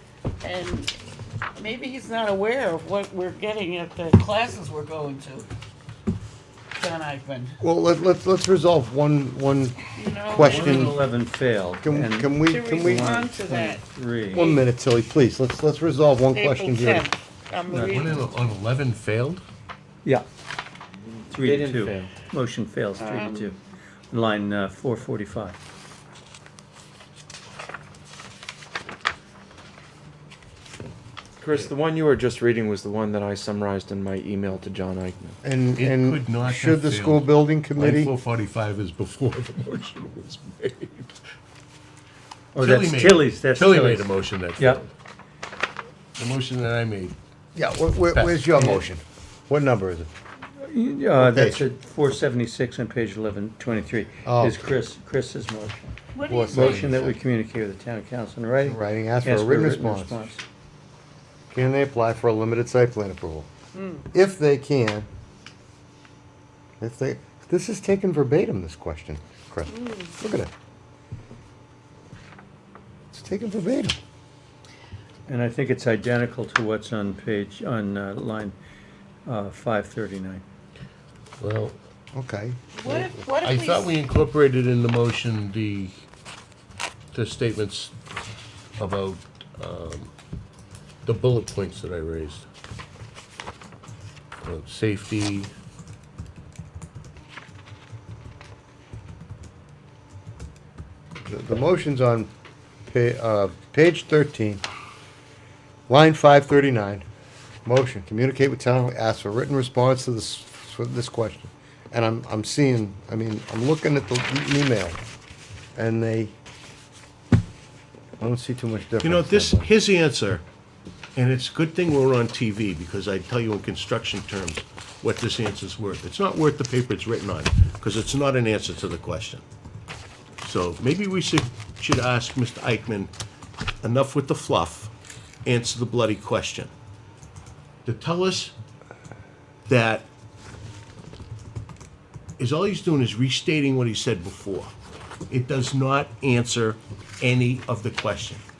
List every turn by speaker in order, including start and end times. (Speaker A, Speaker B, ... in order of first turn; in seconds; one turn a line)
Speaker A: 0.4-0.9
Speaker A: 1.6-5.5
Speaker A: 6.7-7.6
Speaker B: 7.6-11.0
Speaker A: 9.9-10.9
Speaker C: 10.4-14.4
Speaker B: 11.8-13.1
Speaker A: 12.5-14.6
Speaker B: 14.3-17.1
Speaker A: 16.3-18.2
Speaker C: 17.7-18.1
Speaker D: 17.8-19.4
Speaker E: 21.3-22.1
Speaker C: 21.3-23.6
Speaker A: 23.0-23.5
Speaker C: 24.1-25.6
Speaker E: 31.4-35.4
Speaker B: 35.4-38.1
Speaker D: 35.8-41.2
Speaker C: 42.5-44.8
Speaker D: 42.6-44.9
Speaker D: 46.1-47.1
Speaker B: 47.5-50.1
Speaker D: 48.1-48.6
Speaker C: 50.6-55.9
Speaker B: 51.2-51.6
Speaker B: 54.2-54.6
Speaker A: 56.1-56.9
Speaker B: 56.3-57.2
Speaker C: 56.5-60.4
Speaker B: 58.6-60.2
Speaker B: 61.5-63.5
Speaker A: 63.7-64.1
Speaker B: 64.1-65.1
Speaker B: 66.8-70.5
Speaker A: 69.7-70.1
Speaker B: 73.1-74.0
Speaker C: 75.3-78.5
Speaker C: 79.2-80.4
Speaker D: 81.4-81.8
Speaker B: 82.1-83.2
Speaker A: 82.7-84.0
Speaker D: 83.4-86.0
Speaker D: 87.1-87.9
Speaker D: 88.8-90.1
Speaker D: 91.0-92.5
Speaker D: 94.4-95.5
Speaker B: 101.2-102.3
Speaker B: 102.9-104.6
Speaker B: 105.9-107.0
Speaker B: 107.6-115.0
Speaker B: 115.8-116.3
Speaker B: 118.2-119.7
Speaker D: 119.0-120.4
Speaker D: 121.1-129.4
Speaker D: 130.4-133.1
Speaker D: 133.8-134.9
Speaker D: 135.4-136.7
Speaker D: 137.8-138.5
Speaker D: 139.7-140.1
Speaker D: 142.4-144.7
Speaker D: 145.3-148.4